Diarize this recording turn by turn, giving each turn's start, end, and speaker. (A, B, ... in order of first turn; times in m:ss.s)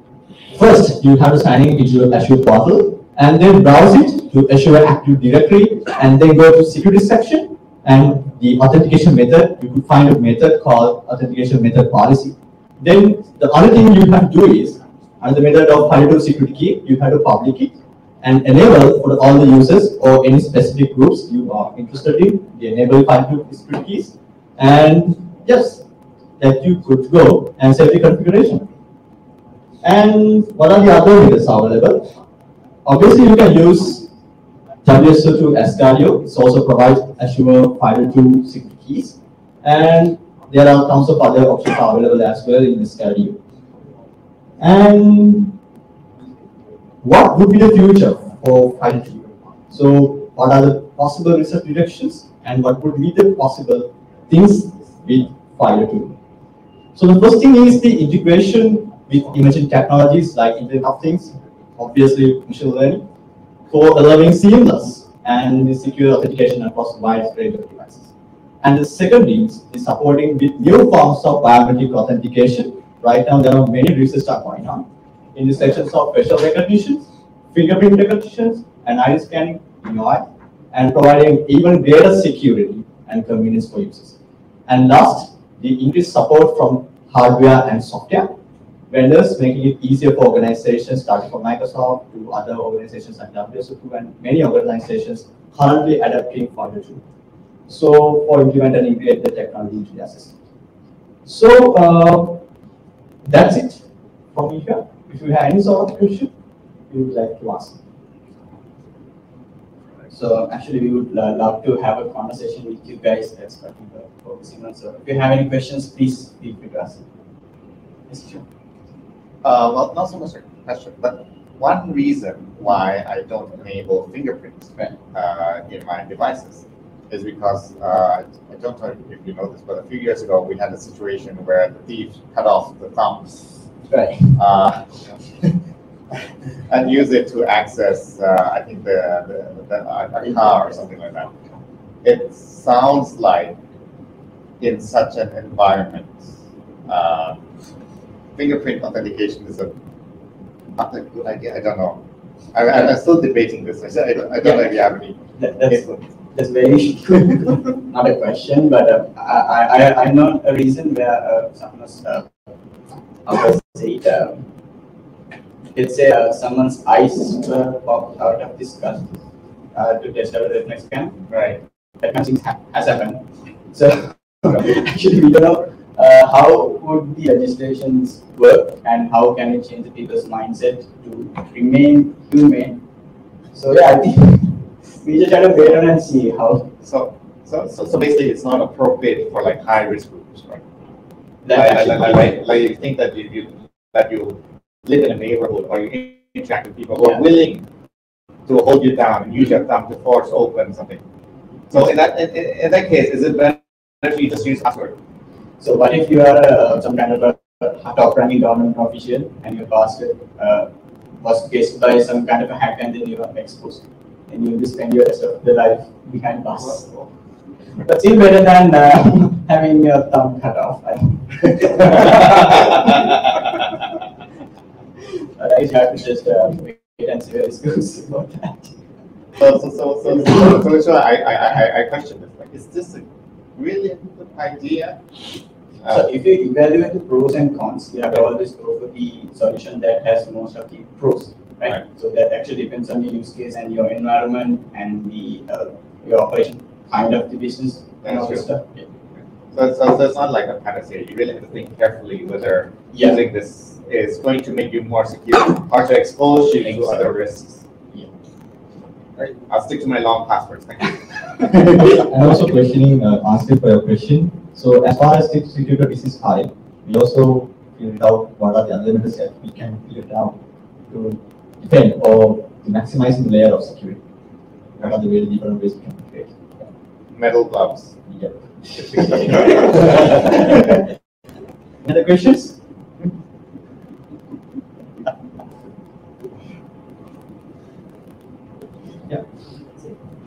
0:00.5-0:25.8 A
0:26.4-0:28.7 A
0:29.8-0:32.1 A
0:32.8-0:34.1 A
0:34.8-0:43.4 A
0:44.6-0:45.6 A
0:47.0-0:56.2 A
0:56.9-1:03.0 A
1:03.7-1:08.1 A
1:08.6-1:24.2 A
1:24.7-1:28.3 A
1:28.9-1:37.0 A
1:37.7-1:40.4 A
1:41.2-1:42.4 A
1:43.2-1:46.3 A
1:46.9-1:47.8 A
1:50.1-1:57.0 B
1:58.1-1:58.4 B
1:59.4-2:13.5 C
2:13.9-2:14.4 B
2:14.3-2:15.2 C
2:16.7-2:21.4 C
2:22.0-2:23.6 C
2:24.6-2:26.3 C
2:26.9-2:27.4 C
2:28.4-2:29.7 C
2:30.8-2:32.0 C
2:32.5-2:35.8 C
2:35.4-2:42.3 B
2:43.2-2:44.4 B
2:45.7-2:49.2 B
2:49.7-2:51.3 B
2:51.3-2:51.6 C
2:52.0-3:02.8 B
3:03.5-3:06.7 B
3:06.8-3:10.6 C
3:11.4-3:12.3 B
3:11.5-3:17.6 C
3:18.5-3:21.0 C
3:21.7-3:25.0 C
3:25.6-3:30.7 B
3:31.2-3:36.8 B
3:37.8-3:43.6 B
3:45.4-3:48.8 B
3:49.4-3:55.0 C
3:55.9-4:08.9 B
4:08.0-4:08.4 C
4:09.5-4:17.6 C
4:12.9-4:13.2 B
4:19.2-4:21.4 C
4:21.6-4:30.4 A
4:30.9-4:34.0 A
4:34.8-4:36.4 A
4:37.1-4:37.9 C
4:38.1-4:40.8 A
4:41.8-4:42.6 A